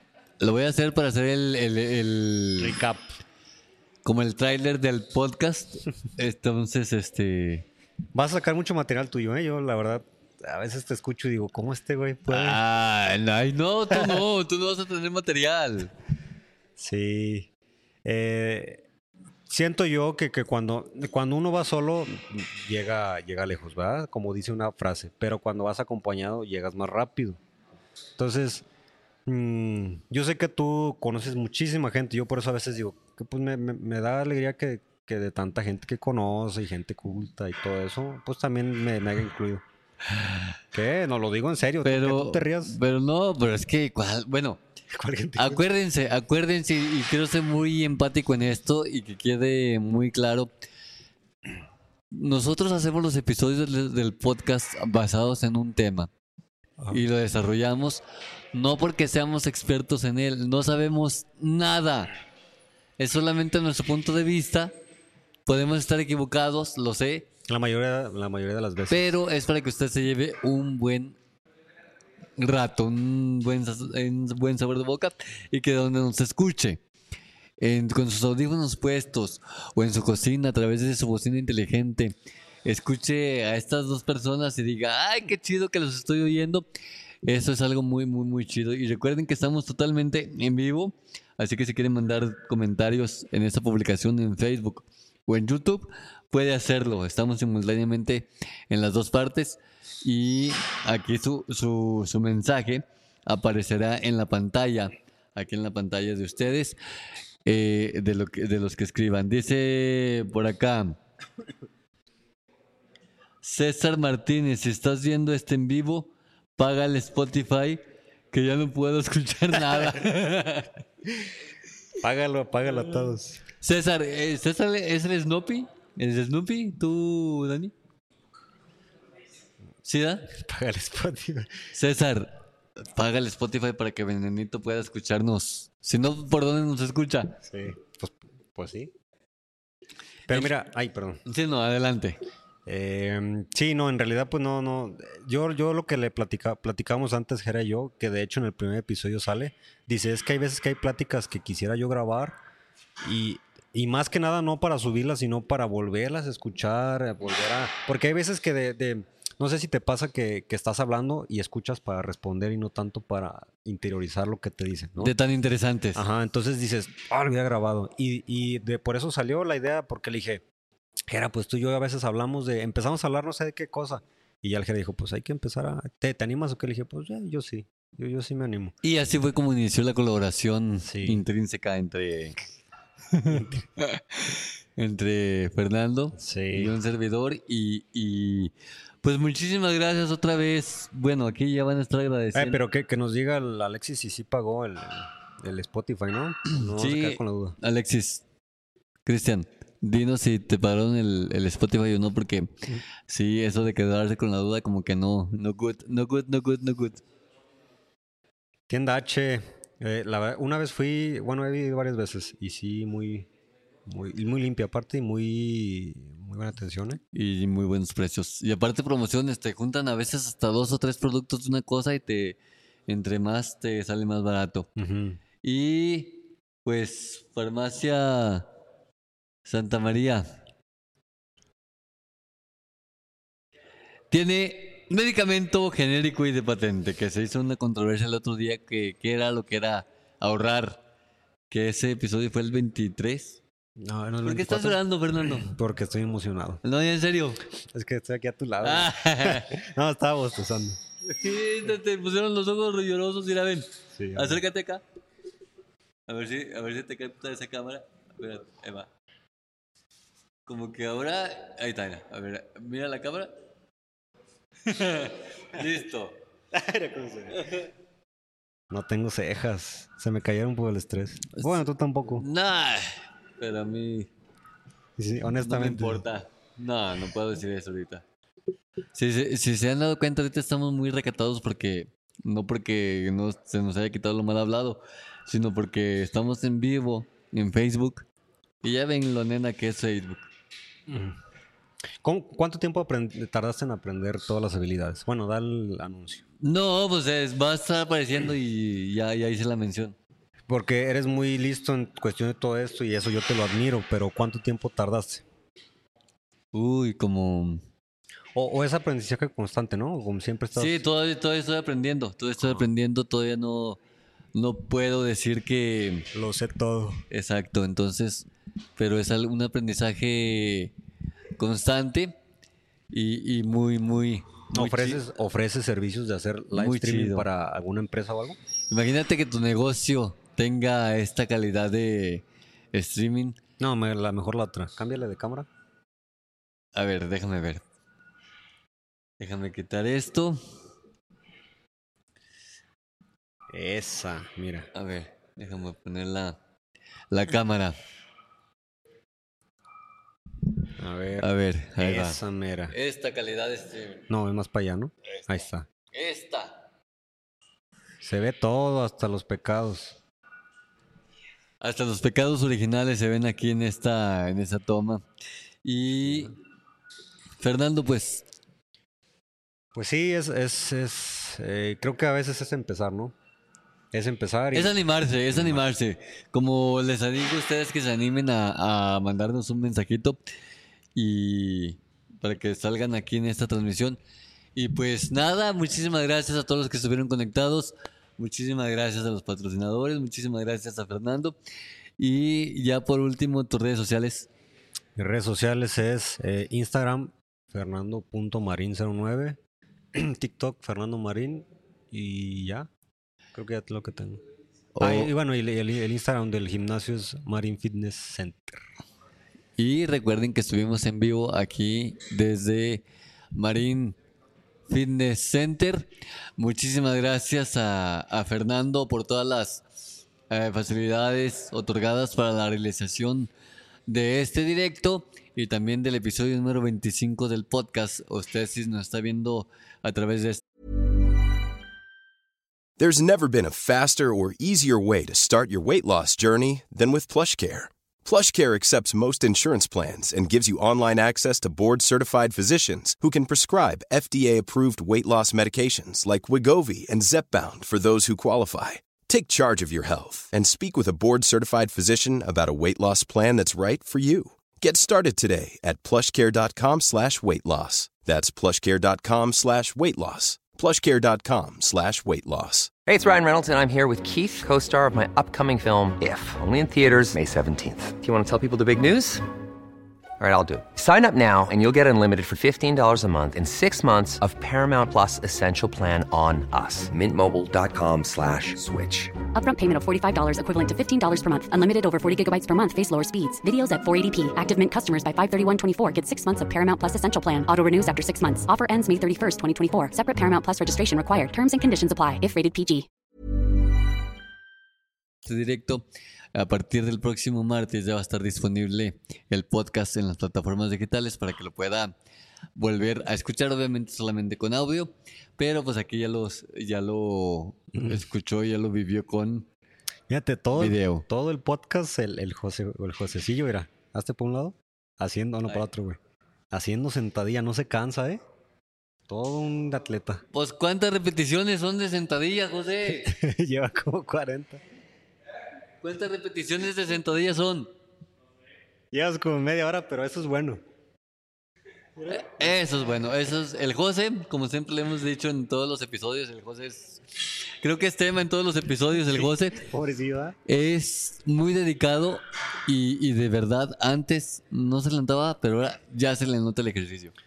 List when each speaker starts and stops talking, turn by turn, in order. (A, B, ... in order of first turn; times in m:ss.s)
0:00.4-0:02.8 A
0:02.6-0:03.2 B
0:04.0-0:07.6 A
0:08.1-0:12.6 B
0:12.3-0:15.9 A
0:13.9-0:14.2 B
0:16.8-0:17.5 B
0:18.0-0:18.8 B
0:19.5-0:27.4 B
0:28.2-0:28.6 B
0:29.2-0:39.6 B
0:40.1-0:40.5 A
0:40.7-0:42.8 B
0:41.8-0:44.6 A
0:44.9-0:45.6 B
0:45.4-0:50.5 A
0:52.1-0:56.1 A
0:56.9-0:58.0 A
0:58.5-1:02.1 A
1:03.0-1:04.7 A
1:05.4-1:07.3 A
1:07.5-1:09.1 B
1:08.9-1:11.2 A
1:12.4-1:16.8 A
1:17.6-1:22.1 A
1:22.6-1:26.6 A
1:27.2-1:46.8 A
1:47.4-1:51.0 A
1:53.4-1:57.8 A
1:58.3-2:00.7 A
2:02.0-2:03.4 B
2:03.6-2:07.7 A
2:09.8-2:10.3 A
2:10.3-2:11.5 B
2:11.7-2:12.3 A
2:12.9-2:17.4 A
2:17.4-2:18.9 B
2:20.3-2:21.2 B
2:21.3-2:22.2 A
2:22.6-2:32.4 B
2:33.0-2:45.1 B
2:45.0-2:46.0 A
2:45.9-2:50.4 B
2:51.1-2:58.7 B
2:58.8-3:02.4 A
3:00.8-3:01.2 B
3:03.1-3:08.5 A
3:03.3-3:03.6 B
3:06.2-3:06.7 B
3:09.0-3:12.6 A
3:12.3-3:17.6 B
3:16.5-3:18.2 A
3:19.0-3:27.0 A
3:28.7-3:33.3 B
3:33.8-3:37.0 B
3:37.1-3:44.7 A
3:44.8-3:45.2 B
3:45.4-3:48.5 A
3:49.4-3:50.3 A
3:54.1-4:00.8 A
4:01.5-4:03.4 A
4:03.8-4:06.6 B
4:04.2-4:05.5 A
4:06.6-4:07.4 A
4:07.7-4:10.8 B
4:08.6-4:09.6 A
4:11.0-4:14.8 A
4:13.9-4:14.4 B
4:16.1-4:18.9 A
4:20.5-4:23.3 A
4:24.6-4:26.2 A
4:26.5-4:27.5 B
4:28.7-4:32.2 B
4:31.3-4:31.6 A
4:32.2-4:34.1 A
4:35.0-4:36.0 B
4:35.4-4:38.0 A
4:38.9-4:48.0 A
4:48.6-4:50.3 A
4:50.9-4:51.2 B
4:52.0-4:56.2 B
4:56.4-5:00.0 A
5:00.5-5:05.2 B
5:06.5-5:07.6 A
5:08.3-5:10.8 B
5:10.5-5:13.8 A
5:14.3-5:16.1 A
5:16.1-5:17.0 B
5:17.1-5:20.7 A
5:21.4-5:22.1 A
5:22.9-5:25.0 A
5:24.5-5:28.4 B
5:26.5-5:27.3 A
5:28.7-5:33.4 A
5:33.6-5:35.5 B
5:36.7-5:37.6 A
5:39.2-5:40.4 A
5:43.5-5:44.7 B
5:44.7-5:46.4 A
5:47.1-5:47.8 A
5:50.8-5:52.7 B
5:51.2-5:52.2 A
5:52.7-5:54.0 A
5:54.1-5:55.7 B
5:55.9-5:56.6 A
5:58.0-6:00.0 B
6:01.6-6:05.0 A
6:05.6-6:06.4 A
6:06.0-6:06.3 B
6:07.4-6:08.2 A
6:09.7-6:13.1 B
6:13.9-6:15.6 B
6:14.5-6:20.2 A
6:20.9-6:24.0 A
6:24.6-6:31.4 A
6:32.0-6:34.3 A
6:35.0-6:39.4 B
6:39.9-6:42.7 B
6:43.3-6:44.2 B
6:44.7-6:45.1 A
6:44.8-6:48.6 B
6:49.6-6:52.8 A
6:53.3-6:54.0 A
6:54.7-6:55.9 A
6:56.4-6:59.6 A
7:00.3-7:03.3 A
7:03.9-7:10.4 A
7:12.8-7:42.8 C
7:42.8-7:49.2 D
7:50.2-7:59.1 D
7:59.3-8:12.9 E
8:15.2-8:21.9 A
8:22.6-8:29.5 A
8:30.1-8:36.0 B
8:30.5-8:31.0 A
8:36.5-8:38.2 B
8:39.1-8:40.2 B
8:40.3-8:43.1 A
8:43.0-8:44.6 B
8:45.8-8:47.7 A
8:48.9-8:50.6 B
8:52.0-8:52.5 B
8:52.1-8:59.6 A
8:59.1-9:00.4 B
9:00.5-9:07.1 A